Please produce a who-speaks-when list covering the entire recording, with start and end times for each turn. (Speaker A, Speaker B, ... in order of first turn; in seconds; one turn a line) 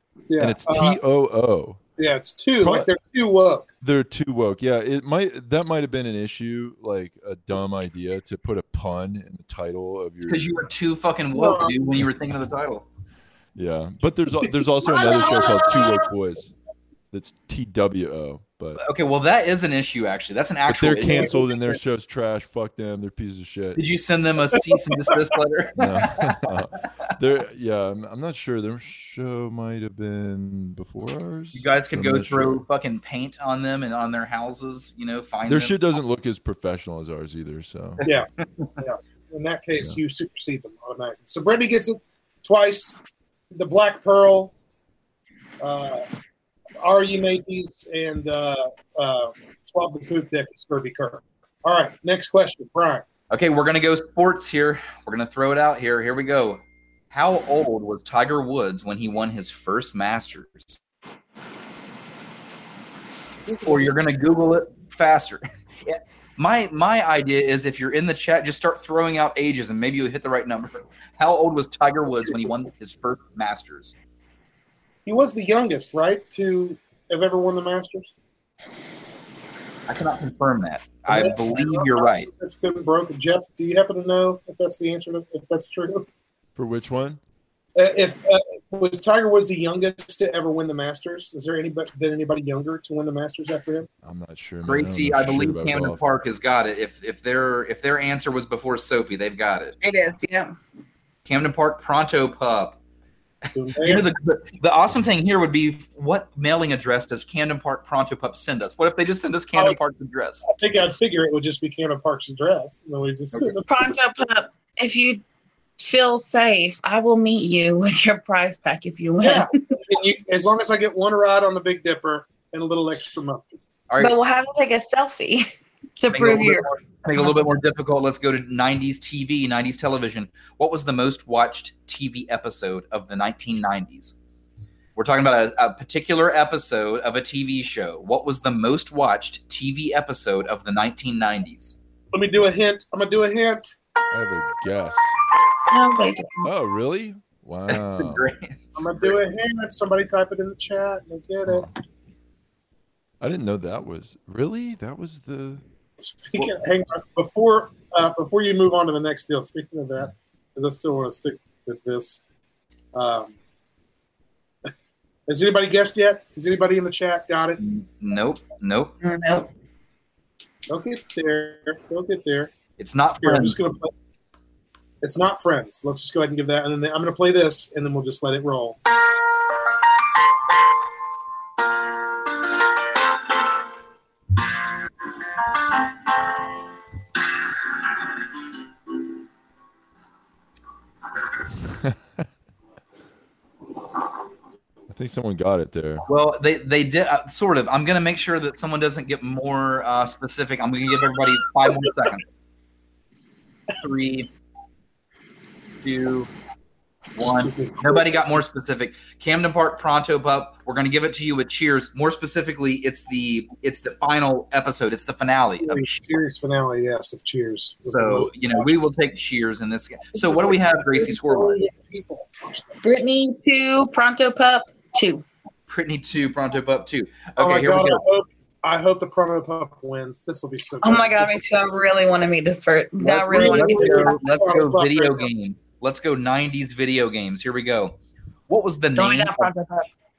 Speaker A: 0.3-1.0
Speaker B: 0.4-1.8
Speaker A: 2.0-3.7
Speaker B: 2.6-2.9
Speaker B: 3.8-10.5
Speaker C: 10.2-12.8
Speaker A: 11.3-11.7
Speaker B: 13.5-16.5
Speaker A: 14.9-15.8
Speaker B: 17.1-18.8
Speaker C: 18.8-21.4
Speaker B: 20.7-23.8
Speaker C: 23.8-26.5
Speaker B: 25.8-32.6
Speaker C: 31.5-35.8
Speaker B: 35.5-38.0
Speaker A: 38.8-43.0
Speaker A: 43.5-44.5
Speaker A: 45.6-46.0
Speaker A: 46.8-53.0
Speaker C: 53.3-56.6
Speaker C: 57.1-60.8
Speaker C: 63.6-73.9
Speaker A: 72.1-72.5
Speaker A: 75.0-78.1
Speaker C: 79.9-82.3
Speaker A: 81.1-86.0
Speaker B: 86.5-87.2
Speaker A: 87.8-93.9
Speaker B: 94.0-96.0
Speaker C: 94.7-99.8
Speaker D: 99.8-100.5
Speaker C: 101.2-102.8
Speaker A: 103.5-104.0
Speaker C: 103.8-110.5
Speaker A: 110.5-114.3
Speaker D: 113.6-115.2
Speaker D: 115.8-119.5
Speaker A: 119.2-123.6
Speaker C: 123.9-124.1
Speaker D: 124.0-127.5
Speaker C: 126.1-134.2
Speaker C: 134.9-141.8
Speaker A: 142.1-143.7
Speaker B: 144.1-145.2
Speaker D: 145.7-146.5
Speaker B: 146.4-148.3
Speaker C: 147.7-149.1
Speaker A: 148.8-151.7
Speaker B: 153.2-155.6
Speaker A: 156.0-162.2
Speaker A: 162.9-163.3
Speaker A: 165.3-167.6
Speaker C: 167.6-168.9
Speaker D: 169.0-169.5
Speaker A: 170.7-172.5
Speaker C: 172.8-173.6
Speaker A: 173.2-173.9
Speaker A: 175.0-178.8
Speaker B: 191.6-191.9
Speaker B: 194.9-196.0
Speaker C: 196.1-202.3
Speaker C: 203.8-204.3
Speaker C: 205.8-206.3
Speaker C: 207.2-215.9
Speaker A: 207.2-208.2
Speaker A: 215.6-218.7
Speaker C: 217.8-221.7
Speaker A: 220.1-222.8
Speaker D: 222.8-225.2
Speaker C: 225.7-228.0
Speaker A: 227.4-231.7
Speaker D: 230.8-234.1
Speaker A: 233.0-235.3
Speaker C: 233.3-237.9
Speaker C: 238.5-239.5
Speaker D: 238.9-239.9